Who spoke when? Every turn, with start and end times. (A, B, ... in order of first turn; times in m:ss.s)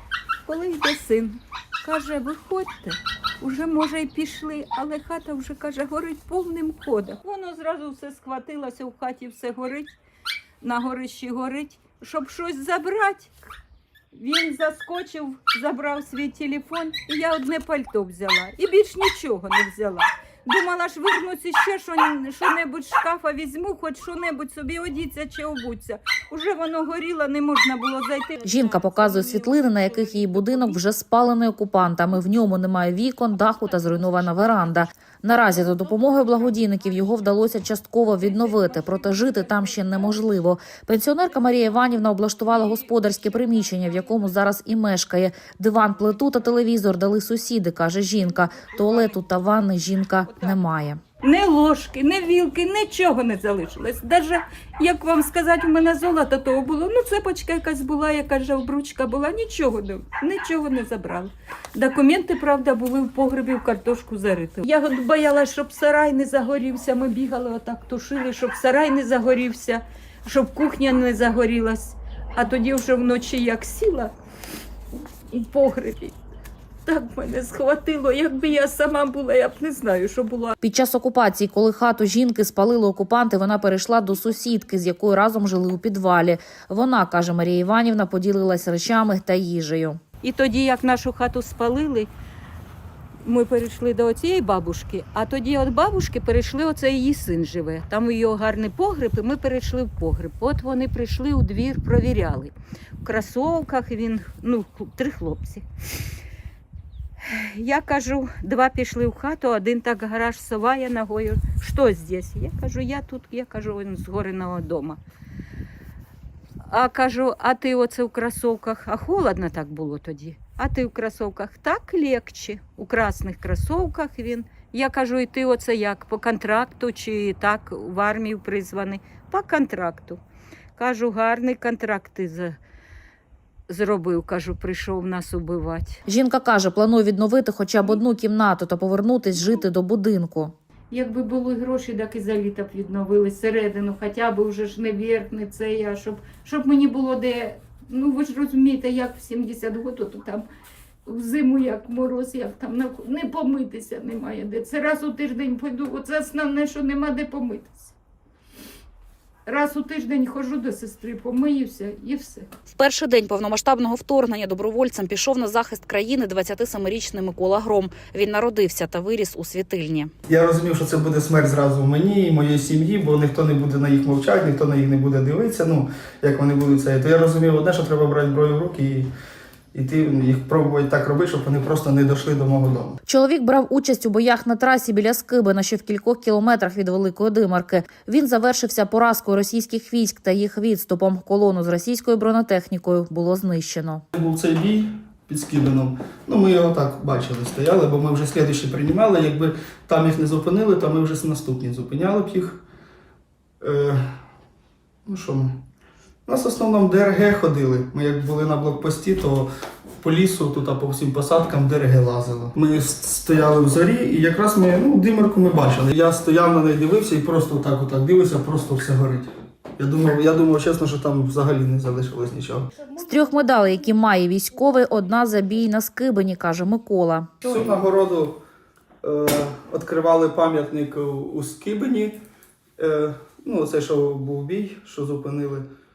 0:00.5-0:10.0 A
0:10.6-0:13.5 A
0:14.1-0:30.8 A
0:28.4-0:51.0 B
0:48.7-0:49.2 A
0:50.3-0:50.6 A
0:51.2-1:14.1 A
1:15.3-1:16.2 A
1:16.9-1:20.6 A
1:20.6-1:30.0 B
1:30.2-1:32.1 A
1:33.2-1:45.7 A
1:47.3-1:55.0 A
1:56.7-2:10.2 A
2:10.8-2:12.6 A
2:13.7-2:16.0 A
2:16.1-2:20.5 B
2:20.9-2:30.4 A
2:31.1-2:37.9 A
2:39.5-2:42.5 A
2:42.8-2:50.1 B
2:50.3-2:59.1 C
2:59.7-3:03.0 C
3:03.1-3:14.0 B
3:14.2-3:22.6 C
3:23.6-3:24.0 C
3:25.1-3:25.6 C
3:26.3-3:29.5 C
3:30.0-3:42.7 C
3:43.0-3:47.3 B
3:47.4-3:48.4 C
3:49.0-3:52.2 C
3:52.8-3:55.6 C